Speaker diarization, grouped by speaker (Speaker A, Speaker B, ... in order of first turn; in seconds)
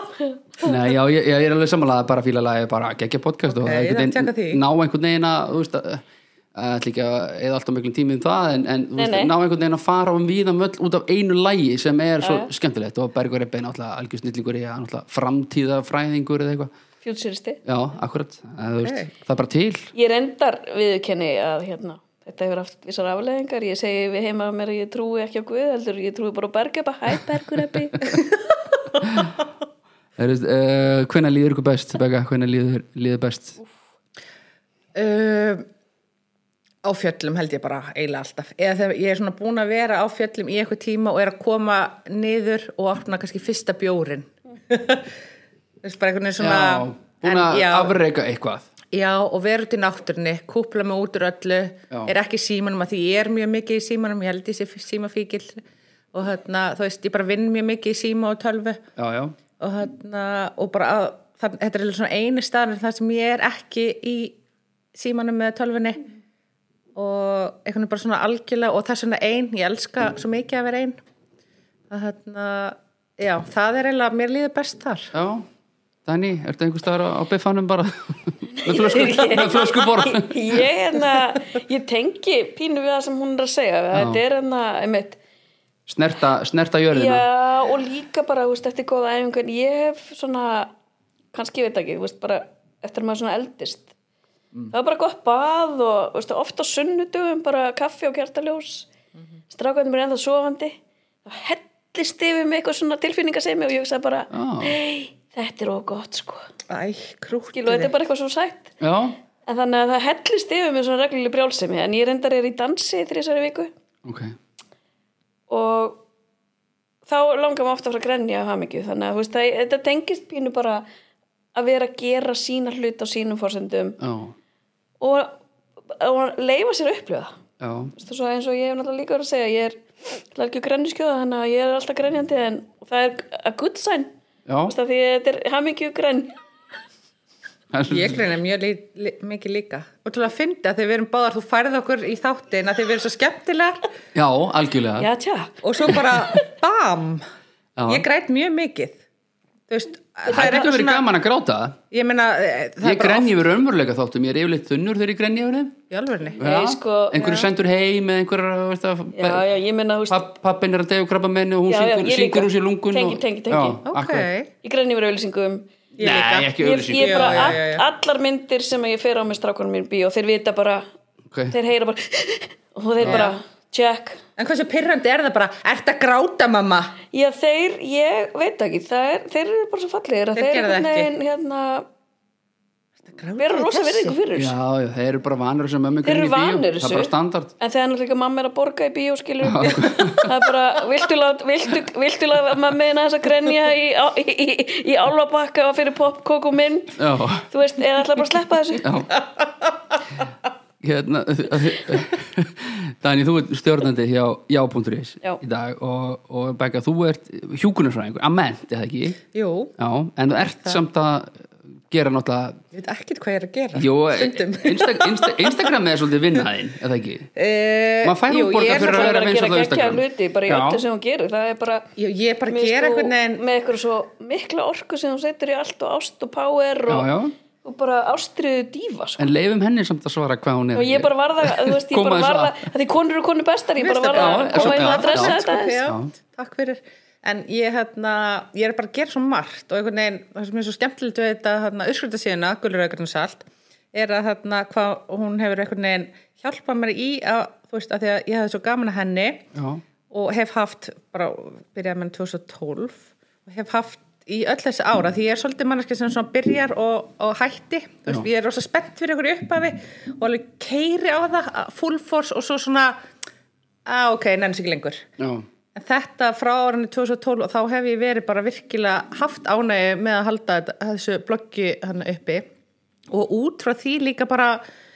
Speaker A: 0.6-16.7, 17.6-19.9, 29.0-29.3, 30.1-33.6, 46.4-48.7, 59.0-59.3, 75.1-75.5, 76.0-80.6, 83.9-84.2, 85.9-87.2, 104.3-104.7, 108.8-109.2, 114.0-114.3, 124.0-124.3, 127.6-127.9, 134.5-134.7, 137.7-138.2, 144.1-145.1, 147.8-148.0, 150.3-151.8, 152.8-155.8, 156.4-159.4, 160.1-164.3, 166.0-167.6, 173.0-173.3, 184.3-187.5, 189.4-190.4, 196.9-197.5, 198.8-199.1, 200.8-209.2, 209.8-212.6, 213.7-217.3, 218.0-220.8, 226.9-227.3, 229.2-232.6, 234.1-236.1, 249.5-249.8, 265.2-265.4
Speaker B: 3.5-4.6, 34.9-35.6, 36.8-45.1, 45.8-47.9, 48.9-58.8, 59.6-64.3, 64.9-66.0, 66.9-71.0, 71.9-75.1, 79.4-79.8, 106.7-107.9, 137.9-143.9, 145.6-147.2, 147.9-149.0, 149.7-151.1, 151.9-153.4, 155.9-156.4, 157.2-157.5, 163.8-164.5, 166.0-167.8, 173.0-173.3, 174.4-176.9, 180.3-181.1, 183.0-184.2, 209.3-209.7, 212.7-215.7, 217.3-219.2, 222.0-223.4, 233.8-249.5, 250.1-263.0, 263.9-265.0, 265.7-272.4, 273.1-274.6
Speaker C: 8.9-9.3, 12.2-12.5, 17.0-17.6, 19.9-28.1, 78.6-85.2, 86.9-90.7, 91.3-93.9, 94.7-98.9, 99.5-106.5, 107.5-108.7, 109.5-113.7, 115.5-116.0, 117.0-120.8, 121.5-124.0, 125.0-127.4, 127.9-134.1, 134.7-136.3, 145.0-146.5, 150.3-150.5, 156.4-157.2, 159.1-160.2, 161.7-163.8, 164.6-165.7, 166.6-170.8, 171.5-174.2, 177.1-181.9, 183.4-184.5, 186.0-198.9, 218.7-221.9, 222.5-227.1, 227.6-229.3, 230.7-235.8